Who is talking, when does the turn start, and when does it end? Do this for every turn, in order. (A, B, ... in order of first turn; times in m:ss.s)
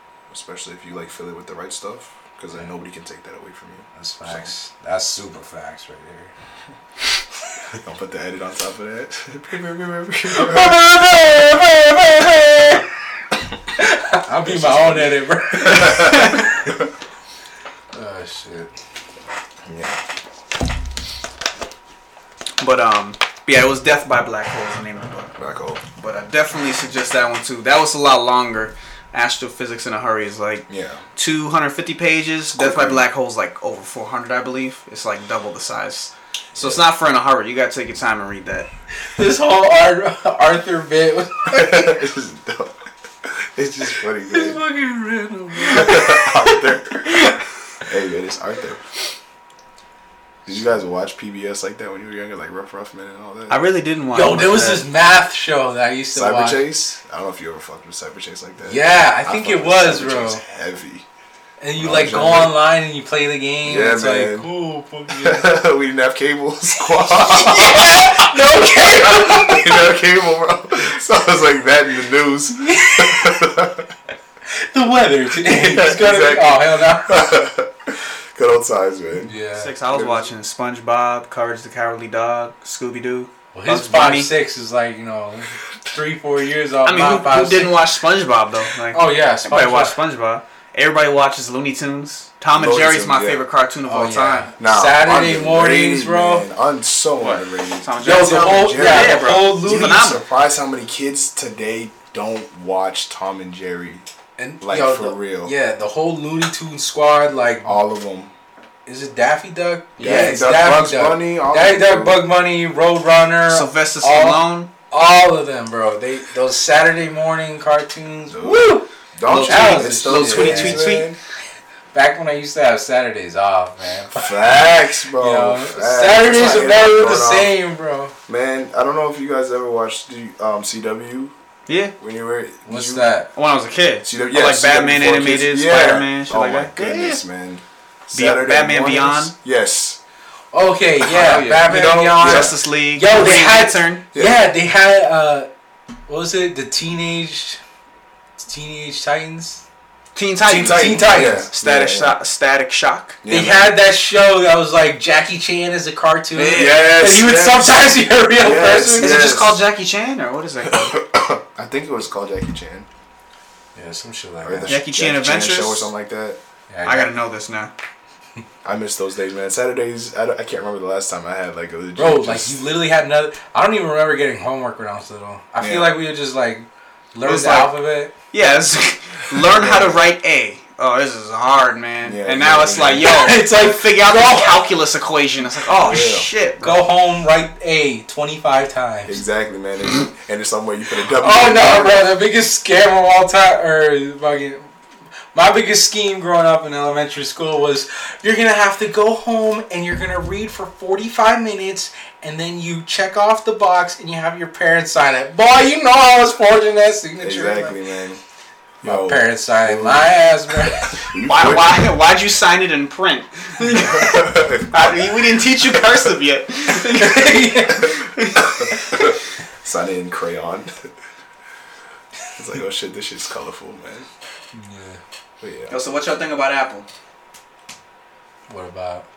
0:00.3-0:04.4 A
0:04.0-0:06.3 B
0:07.8-0:10.8 A
0:10.3-0:12.8 B
0:13.8-0:16.7 B
0:14.4-0:16.3 A
0:17.9-0:18.7 B
0:19.6-0:20.0 A
0:22.6-0:25.3 C
0:25.4-0:25.8 A
0:26.0-0:38.7 C
0:30.7-0:31.0 A
0:32.5-0:33.0 A
0:36.6-0:36.8 A
0:39.1-0:42.0 B
0:41.5-0:42.7 A
0:43.2-0:44.6 A
0:44.3-0:46.2 B
0:45.6-0:47.1 A
0:47.8-0:48.8 A
0:50.4-0:53.6 A
0:53.5-0:54.9 C
0:54.1-0:56.7 B
0:56.1-1:01.0 A
0:58.6-1:00.4 B
1:01.6-1:05.5 B
1:01.8-1:02.6 A
1:03.6-1:04.5 A
1:05.1-1:13.9 A
1:07.1-1:09.8 B
1:12.6-1:13.4 B
1:14.7-1:17.2 B
1:15.4-1:19.3 A
1:19.2-1:19.7 B
1:19.6-1:24.3 C
1:19.9-1:20.3 A
1:23.5-1:27.8 B
1:26.8-1:34.5 C
1:28.9-1:30.0 B
1:32.5-1:33.4 A
1:33.8-1:36.5 B
1:34.6-1:44.0 A
1:37.2-1:40.2 C
1:38.0-1:40.0 B
1:44.4-1:47.8 B
1:44.6-1:45.5 A
1:47.6-1:48.3 A
1:48.8-2:00.9 B
1:50.0-1:50.3 C
1:50.0-1:52.2 A
1:53.5-1:54.7 C
1:58.3-2:01.2 A
1:59.3-2:01.1 C
2:01.9-2:04.3 B
2:04.1-2:07.5 A
2:05.2-2:08.1 B
2:08.3-2:11.3 A
2:11.7-2:11.9 C
2:12.0-2:13.1 A
2:12.6-2:13.3 B
2:13.3-2:17.2 C
2:14.0-2:20.0 A
2:18.1-2:19.3 C
2:20.5-2:25.5 B
2:21.0-2:24.0 C
2:21.5-2:22.6 A
2:24.1-2:24.4 A
2:26.1-2:27.6 B
2:28.4-2:29.6 B
2:30.1-2:33.2 C
2:30.4-2:32.2 A
2:30.5-2:31.5 B
2:33.2-2:33.8 A
2:33.3-2:39.2 B
2:36.3-2:36.8 C
2:36.4-2:39.6 A
2:39.0-2:41.0 C
2:40.7-2:42.9 A
2:43.7-2:44.8 B
2:44.4-2:46.4 A
2:44.7-2:45.9 C
2:46.7-2:47.1 B
2:46.8-2:47.7 C
2:48.6-2:52.6 A
2:52.0-2:58.1 B
2:55.6-2:56.0 A
2:57.2-2:57.7 C
2:58.3-3:06.8 C
2:59.4-3:00.0 A
3:02.0-3:03.2 A
3:03.1-3:04.6 B
3:05.8-3:06.3 A
3:06.6-3:09.2 B
3:09.0-3:12.1 A
3:11.2-3:14.7 B
3:15.3-3:27.8 B
3:27.2-3:28.2 A
3:28.8-3:30.2 A
3:28.8-3:31.1 B
3:30.9-3:31.9 A
3:31.3-3:39.1 C
3:33.6-3:36.0 A
3:36.8-3:37.9 B
3:38.4-3:40.7 A
3:42.4-3:44.1 A
3:44.5-3:45.0 B
3:45.4-3:45.8 A
3:45.7-3:46.9 C
3:48.5-3:49.0 B